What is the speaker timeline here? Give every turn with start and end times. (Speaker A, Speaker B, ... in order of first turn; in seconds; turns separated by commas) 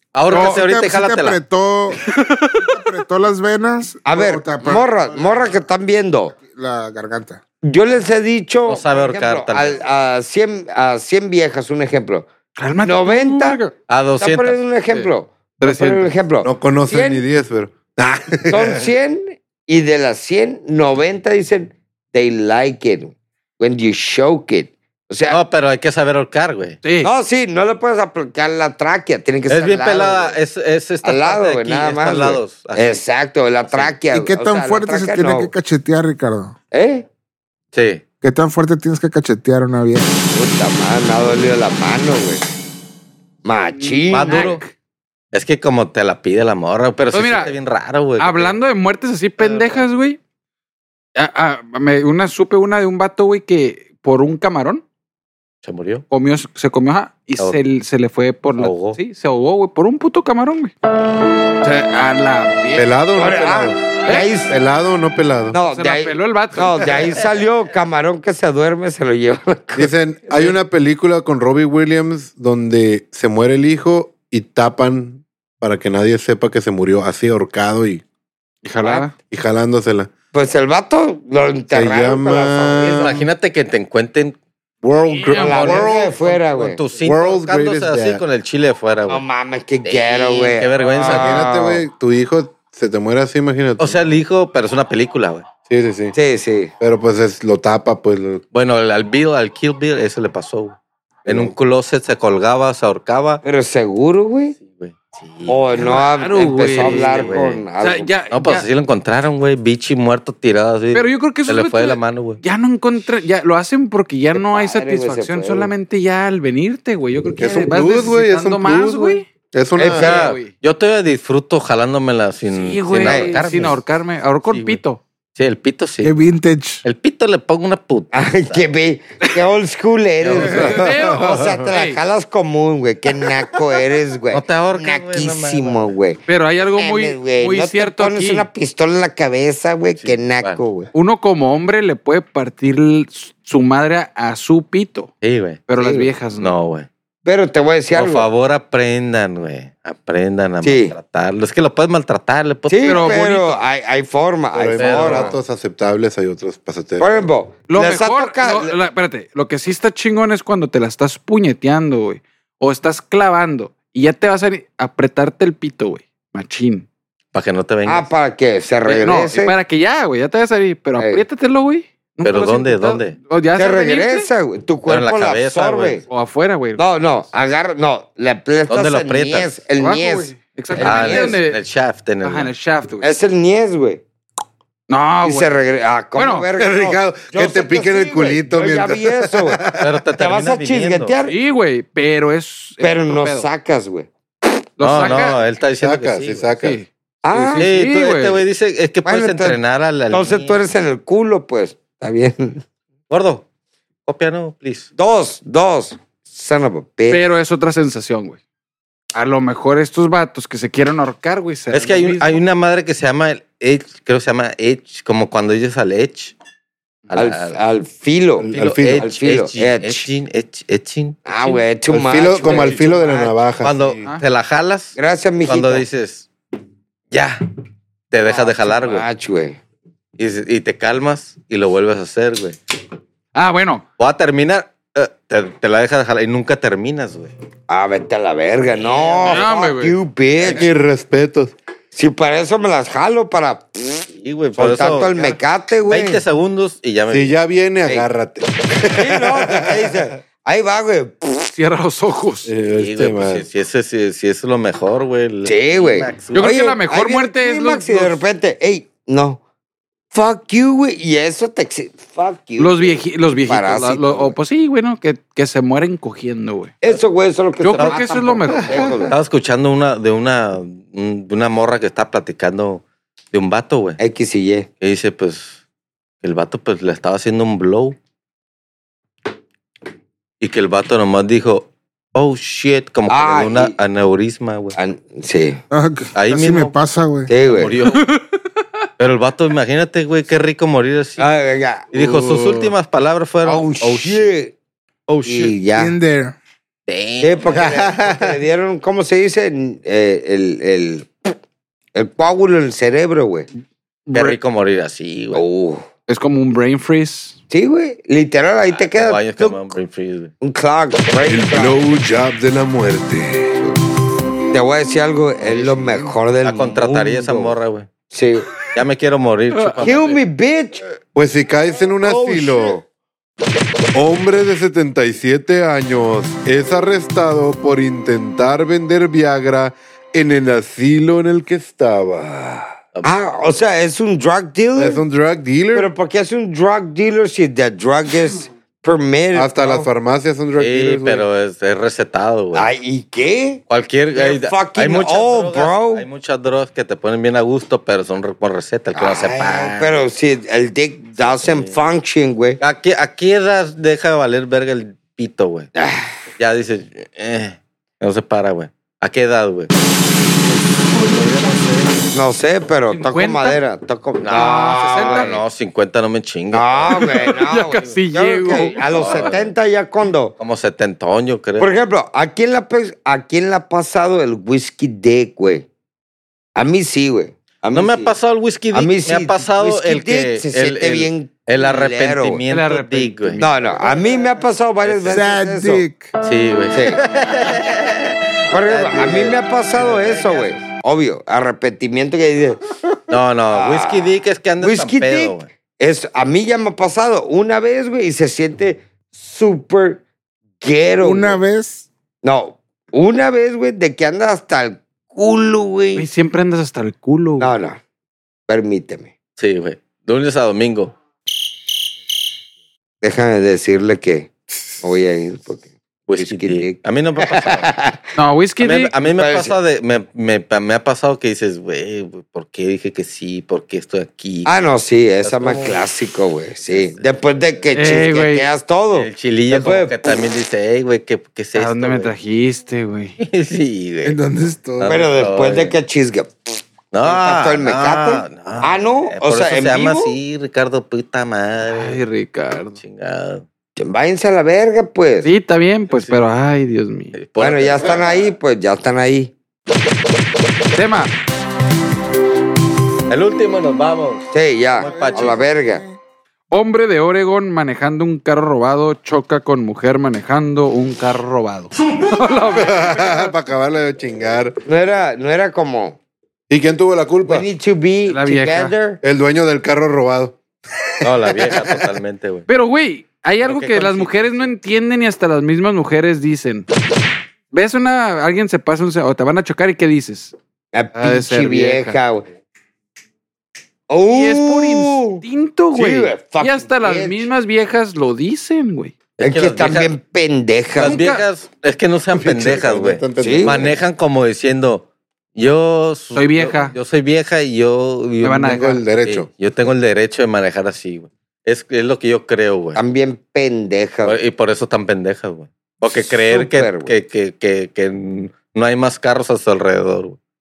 Speaker A: 0.1-1.4, Speaker B: 0.3-0.6, Speaker C: 0.3-2.0, Speaker B: 2.1-2.7, Speaker C: 2.5-5.5, Speaker D: 4.0-6.4, Speaker C: 6.3-7.4, Speaker D: 7.6-12.3, Speaker A: 8.7-9.8, Speaker B: 12.6-13.7, Speaker D: 12.8-13.6, Speaker A: 13.9-14.6, Speaker D: 14.2-17.2, Speaker B: 15.6-16.1, Speaker E: 16.4-18.9, Speaker D: 18.5-25.4, Speaker A: 25.3-26.8, Speaker B: 26.8-27.1, Speaker D: 27.0-30.4, Speaker A: 29.5-33.0, Speaker D: 31.0-35.5, Speaker A: 33.7-33.9, Speaker C: 34.1-36.5, Speaker D: 36.7-37.0, Speaker A: 37.7-38.0, Speaker C: 38.2-40.1, Speaker D: 40.3-42.5, Speaker D: 43.4-44.6, Speaker B: 43.7-44.7, Speaker A: 44.1-44.6, Speaker A: 45.3-48.5, Speaker B: 47.1-47.6, Speaker B: 48.2-50.2, Speaker A: 49.4-49.9, Speaker B: 51.1-54.8, Speaker A: 55.6-56.0, Speaker B: 56.1-60.7, Speaker A: 58.6-59.0, Speaker B: 61.6-62.9, Speaker E: 62.8-65.5, Speaker D: 63.1-64.5, Speaker B: 64.0-64.3, Speaker D: 65.5-70.5, Speaker B: 65.6-67.2, Speaker E: 69.7-78.0, Speaker B: 78.6-79.1, Speaker D: 78.8-79.1, Speaker E: 79.3-80.1, Speaker D: 80.3-83.2, Speaker E: 81.7-83.1, Speaker A: 83.0-84.4, Speaker E: 84.8-86.2, Speaker B: 85.1-86.0, Speaker D: 85.3-86.8, Speaker A: 86.5-89.2, Speaker E: 87.0-88.2, Speaker D: 89.1-91.8, Speaker A: 89.8-91.5, Speaker E: 91.0-94.2, Speaker A: 93.8-95.5, Speaker E: 95.7-96.1, Speaker D: 96.1-96.7, Speaker E: 96.8-98.4, Speaker A: 98.5-103.4, Speaker E: 101.2-101.5, Speaker D: 103.4-104.5, Speaker A: 104.6-107.6, Speaker D: 105.5-108.1, Speaker B: 105.8-108.7, Speaker A: 108.3-112.4, Speaker B: 110.9-119.2, Speaker D: 114.3-115.7, Speaker E: 117.4-120.1, Speaker D: 119.8-120.3, Speaker B: 119.9-120.5, Speaker A: 120.0-123.8, Speaker B: 122.5-125.0, Speaker D: 123.0-123.3, Speaker A: 124.5-124.8, Speaker A: 125.3-126.2, Speaker C: 126.0-126.8, Speaker A: 126.8-128.6, Speaker D: 128.1-136.2, Speaker A: 130.2-130.9, Speaker B: 130.4-132.0, Speaker E: 130.7-131.4, Speaker A: 134.3-135.9, Speaker B: 136.3-138.5, Speaker D: 136.7-140.9, Speaker A: 140.0-140.6, Speaker B: 140.9-145.1, Speaker A: 145.2-145.6, Speaker B: 145.7-146.5, Speaker D: 145.8-146.1, Speaker A: 146.4-146.9, Speaker D: 147.2-148.3, Speaker A: 147.9-153.5, Speaker D: 150.6-150.9, Speaker D: 152.7-155.3, Speaker B: 152.8-153.5, Speaker E: 154.5-157.1, Speaker A: 154.8-155.3, Speaker B: 154.8-155.3, Speaker D: 157.0-158.8, Speaker B: 157.7-166.8, Speaker A: 167.3-168.1, Speaker D: 167.8-169.6, Speaker B: 168.8-174.3, Speaker D: 171.0-171.2, Speaker A: 172.2-173.2, Speaker D: 173.5-176.0, Speaker A: 174.8-176.0, Speaker B: 176.1-176.8, Speaker D: 176.8-181.4, Speaker A: 178.7-179.6, Speaker B: 179.8-181.6, Speaker A: 180.8-182.5, Speaker B: 182.2-183.1, Speaker D: 183.0-184.0, Speaker B: 184.9-185.6, Speaker D: 185.2-191.3, Speaker B: 186.2-186.5, Speaker E: 186.6-189.9, Speaker A: 189.8-191.1, Speaker B: 191.2-193.5, Speaker D: 192.8-194.1, Speaker B: 194.8-195.4, Speaker A: 194.8-196.5, Speaker E: 195.8-196.8, Speaker B: 196.6-198.4, Speaker D: 197.2-197.7, Speaker A: 197.6-200.6, Speaker D: 199.0-202.6, Speaker A: 203.1-203.4, Speaker A: 204.0-204.9, Speaker D: 205.0-207.2, Speaker B: 207.1-208.4, Speaker B: 209.1-212.4, Speaker A: 211.7-216.3, Speaker A: 217.1-217.6, Speaker D: 217.1-220.1, Speaker E: 218.4-219.0, Speaker A: 218.5-221.2, Speaker D: 221.2-223.1, Speaker E: 221.9-224.0, Speaker A: 222.4-226.3, Speaker D: 224.9-225.8, Speaker A: 227.1-227.4, Speaker A: 228.1-229.1, Speaker D: 228.3-229.6, Speaker A: 230.2-232.6, Speaker B: 233.3-233.8, Speaker A: 234.0-237.3, Speaker D: 237.7-240.7, Speaker A: 238.8-239.2, Speaker B: 239.2-240.0, Speaker E: 240.4-241.5, Speaker D: 241.9-246.2, Speaker A: 244.2-247.3, Speaker E: 247.1-250.0, Speaker D: 248.9-251.5, Speaker B: 251.5-252.5, Speaker E: 252.4-253.4, Speaker A: 252.7-256.5, Speaker D: 255.4-259.4, Speaker B: 256.3-258.2, Speaker D: 260.1-264.3, Speaker B: 262.6-266.7, Speaker D: 266.8-269.1, Speaker B: 267.6-269.0, Speaker A: 267.7-268.6, Speaker A: 269.1-274.0, Speaker D: 274.0-274.7, Speaker A: 274.8-275.6, Speaker A: 276.2-277.9, Speaker A: 280.4-284.8, Speaker D: 283.1-283.7, Speaker D: 284.8-285.6, Speaker C: 285.7-287.3, Speaker A: 286.1-286.7, Speaker D: 287.3-287.7, Speaker A: 287.5-288.1, Speaker B: 287.9-288.2, Speaker A: 289.0-291.2, Speaker D: 291.2-292.4, Speaker A: 291.9-294.3, Speaker B: 292.2-292.7, Speaker D: 293.4-294.5, Speaker A: 295.1-295.5, Speaker D: 295.2-295.9, Speaker C: 295.8-296.4, Speaker A: 296.9-297.7, Speaker D: 297.2-301.3, Speaker E: 297.5-298.4, Speaker D: 301.9-303.5, Speaker B: 304.1-304.4, Speaker A: 304.1-305.4, Speaker D: 305.3-305.8, Speaker B: 306.1-307.4, Speaker D: 307.5-309.7, Speaker A: 308.8-310.3, Speaker D: 310.4-311.8, Speaker E: 311.2-313.7, Speaker D: 314.5-317.6, Speaker E: 315.4-316.1, Speaker A: 316.4-317.9, Speaker D: 318.1-318.5, Speaker A: 318.7-320.2, Speaker B: 319.6-319.9, Speaker D: 319.8-320.9, Speaker E: 321.1-322.8, Speaker D: 322.0-322.8, Speaker E: 323.9-332.5, Speaker D: 333.0-335.0, Speaker E: 334.8-335.9, Speaker D: 335.7-339.9, Speaker E: 339.3-341.2, Speaker A: 340.6-342.7, Speaker D: 342.5-343.6, Speaker A: 343.7-350.0, Speaker D: 344.1-346.1, Speaker D: 348.9-352.6, Speaker A: 351.2-351.8, Speaker A: 352.6-355.7, Speaker D: 355.8-356.1, Speaker A: 356.4-359.7, Speaker B: 361.0-362.1, Speaker D: 362.1-365.4, Speaker B: 362.9-363.6, Speaker A: 364.2-367.2, Speaker B: 364.3-365.3, Speaker D: 366.5-370.3, Speaker B: 367.1-369.4, Speaker A: 368.4-369.5, Speaker A: 370.4-371.7, Speaker D: 371.6-375.7, Speaker D: 376.6-378.1, Speaker A: 377.7-383.4, Speaker D: 378.7-382.4, Speaker B: 382.5-384.0, Speaker D: 383.4-385.8, Speaker A: 384.8-385.3, Speaker C: 385.1-386.1, Speaker A: 386.2-390.6, Speaker D: 386.7-387.0, Speaker D: 388.5-392.6, Speaker A: 393.1-395.5, Speaker D: 393.5-400.0, Speaker D: 400.6-401.4, Speaker C: 401.0-401.9, Speaker D: 402.2-406.1, Speaker B: 405.9-407.5, Speaker D: 407.4-407.8, Speaker D: 408.5-409.1, Speaker A: 409.4-410.9, Speaker D: 413.0-418.0, Speaker A: 416.1-417.7, Speaker B: 418.1-418.9, Speaker A: 418.6-424.5, Speaker D: 419.1-419.5, Speaker D: 424.4-430.2, Speaker A: 425.2-425.8, Speaker A: 426.7-427.1, Speaker B: 427.7-428.5, Speaker A: 428.9-432.1, Speaker B: 431.5-433.1, Speaker A: 433.2-434.2, Speaker C: 434.0-434.9, Speaker A: 434.8-435.8, Speaker D: 434.8-440.1, Speaker A: 436.9-442.0, Speaker B: 441.6-442.8, Speaker A: 442.8-443.4, Speaker D: 443.8-445.3, Speaker B: 445.2-447.1, Speaker A: 445.9-446.2, Speaker A: 447.1-448.2, Speaker D: 447.4-449.3, Speaker B: 450.7-451.1, Speaker A: 453.1-455.4, Speaker D: 454.3-455.8, Speaker C: 454.8-456.0, Speaker B: 456.5-463.3, Speaker E: 462.5-464.6, Speaker D: 464.6-466.0, Speaker E: 466.5-467.4, Speaker D: 467.2-469.0, Speaker B: 468.1-468.7, Speaker E: 469.0-470.4, Speaker A: 471.0-472.4, Speaker E: 471.0-471.8, Speaker B: 472.5-476.6, Speaker A: 473.4-474.5, Speaker B: 477.5-480.3, Speaker D: 480.7-482.2, Speaker B: 480.9-482.0, Speaker D: 483.9-487.3, Speaker B: 484.1-488.9, Speaker A: 489.2-489.9, Speaker D: 489.2-491.0, Speaker B: 490.8-491.2, Speaker A: 490.8-502.8, Speaker E: 492.1-493.8, Speaker D: 493.2-493.6, Speaker B: 496.1-496.7, Speaker B: 498.2-498.8, Speaker E: 498.5-499.3, Speaker D: 502.7-504.2, Speaker A: 504.0-510.2, Speaker D: 505.9-506.9